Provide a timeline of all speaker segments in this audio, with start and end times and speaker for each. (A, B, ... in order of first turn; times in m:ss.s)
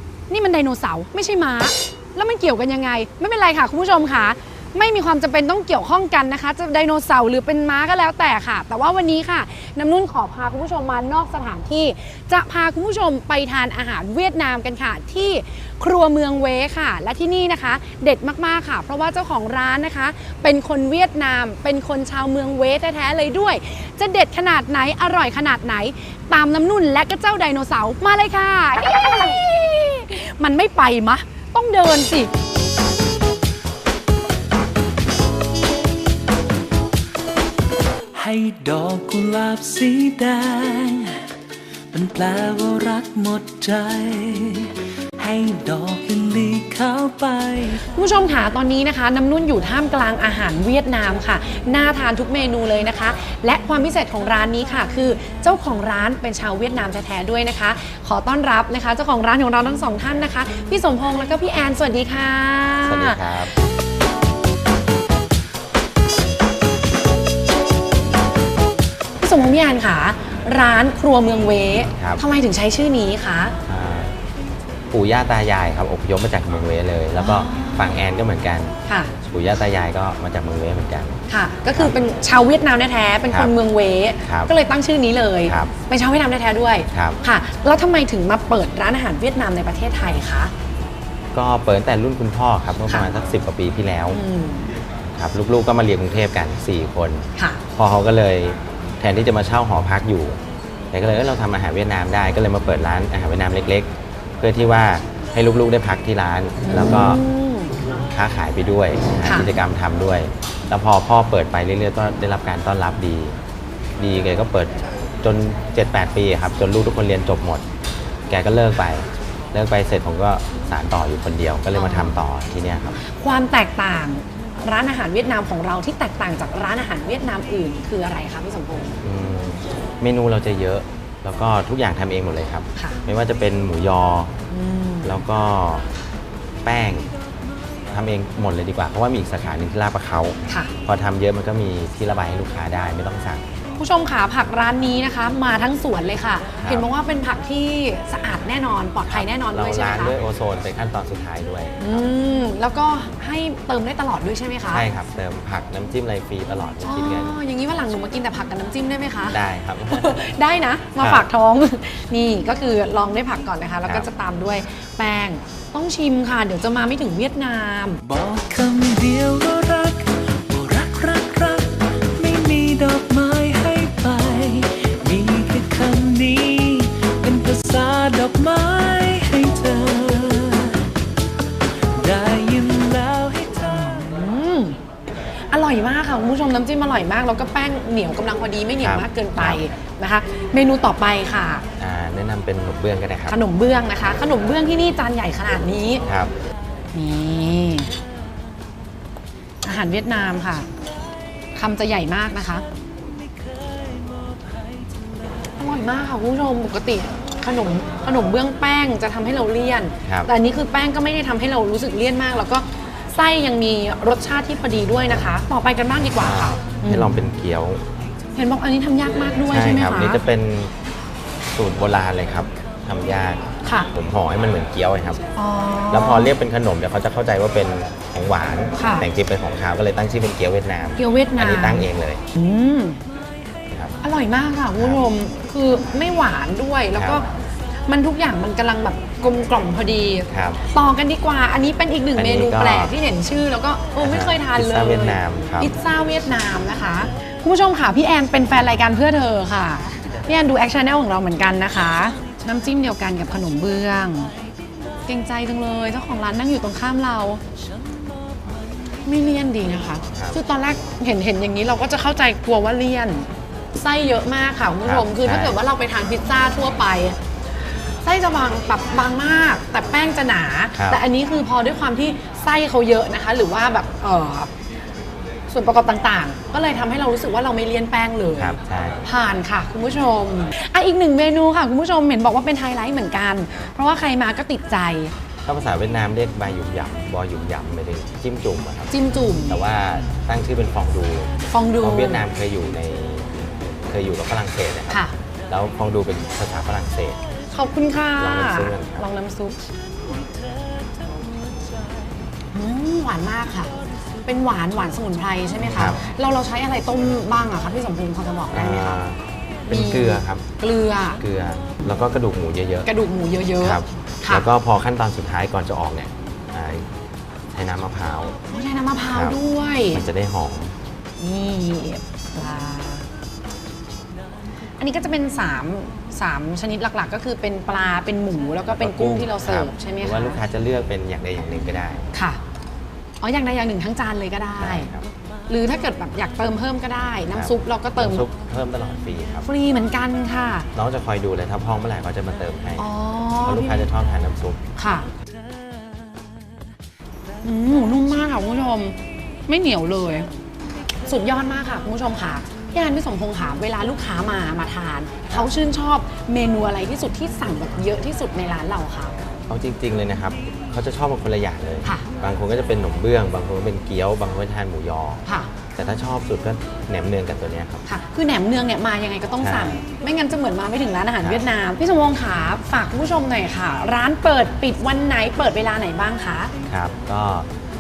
0:00.3-0:32.3 A
0:38.2-0:41.2 B
0:41.9-0:47.8 B
0:47.9-1:03.4 A
1:02.8-1:03.5 C
1:09.2-1:13.6 A
1:12.0-1:12.2 C
1:13.6-1:14.2 C
1:14.9-1:18.8 C
1:17.2-1:18.0 A
1:18.9-1:19.1 A
1:19.3-1:21.2 C
1:21.3-1:30.5 A
1:24.2-1:24.5 C
1:25.5-1:25.7 C
1:26.9-1:27.2 C
1:31.3-1:34.2 C
1:34.1-1:34.7 A
1:35.1-1:40.4 C
1:37.4-1:37.6 A
1:40.9-1:47.2 C
1:46.6-1:47.8 A
1:48.1-1:53.4 C
1:49.2-1:49.5 A
1:54.0-1:57.7 C
1:58.3-2:03.0 C
2:01.7-2:02.2 A
2:03.0-2:09.0 A
2:09.0-2:14.4 C
2:14.5-2:15.2 A
2:15.0-2:15.9 C
2:16.6-2:17.1 C
2:17.9-2:23.5 C
2:20.5-2:20.7 A
2:23.8-2:30.2 A
2:26.6-2:26.9 C
2:29.1-2:32.1 C
2:31.8-2:34.9 A
2:34.7-2:37.4 C
2:36.8-2:39.4 A
2:39.3-2:40.2 C
2:39.9-2:48.0 A
2:41.0-2:41.3 C
2:48.0-3:00.9 B
3:01.9-3:04.0 B
3:04.0-3:04.8 A
3:05.5-3:11.6 A
3:08.8-3:09.6 C
3:11.8-3:13.4 C
3:13.3-3:16.0 A
3:16.0-3:16.3 C
3:16.9-3:17.9 A
3:19.6-3:20.7 A
3:21.6-3:22.6 A
3:25.6-3:37.2 A
3:30.0-3:30.3 C
3:36.2-3:37.8 C
3:38.4-3:40.2 A
3:39.5-3:40.7 C
3:41.6-3:45.2 C
3:43.6-3:43.9 A
3:45.4-3:46.3 A
3:45.9-3:52.2 C
3:48.8-3:49.1 A
3:51.0-3:53.0 A
3:53.7-3:54.0 C
3:54.0-3:57.3 A
3:54.8-3:55.0 C
3:57.0-3:57.2 C
3:57.9-4:14.3 A
4:00.3-4:00.6 C
4:02.2-4:02.9 C
4:04.0-4:05.7 C
4:15.0-4:17.4 A
4:19.0-4:27.2 A
4:20.1-4:20.4 C
4:24.8-4:25.6 C
4:28.0-4:34.5 A
4:30.8-4:31.0 C
4:35.5-4:45.1 A
4:38.4-4:39.0 C
4:45.4-4:48.9 C
4:48.9-4:49.6 A
4:49.5-4:57.2 C
4:51.5-4:52.3 A
4:57.5-4:59.6 A
4:58.2-4:59.1 C
5:02.5-5:09.0 A
5:05.7-5:06.0 C
5:08.5-5:10.4 C
5:09.7-5:11.2 A
5:11.2-5:12.9 C
5:12.8-5:14.5 A
5:13.6-5:16.9 C
5:17.5-5:18.4 C
5:18.5-5:20.0 A
5:19.1-5:19.4 C
5:19.9-5:20.8 C
5:21.2-5:23.1 A
5:24.8-5:30.4 A
5:28.7-5:32.1 C
5:32.1-5:32.4 A
5:33.2-5:34.9 A
5:34.6-5:35.1 C
5:35.5-5:38.3 A
5:37.3-5:39.5 C
5:39.4-5:40.7 A
5:40.8-5:42.9 C
5:42.8-5:43.9 A
5:43.4-5:44.6 C
5:44.8-5:45.1 A
5:47.4-5:50.3 A
5:51.0-5:59.2 A
5:59.5-6:05.2 C
6:05.8-6:07.8 C
6:07.9-6:16.5 A
6:09.4-6:09.8 C
6:16.7-6:17.5 C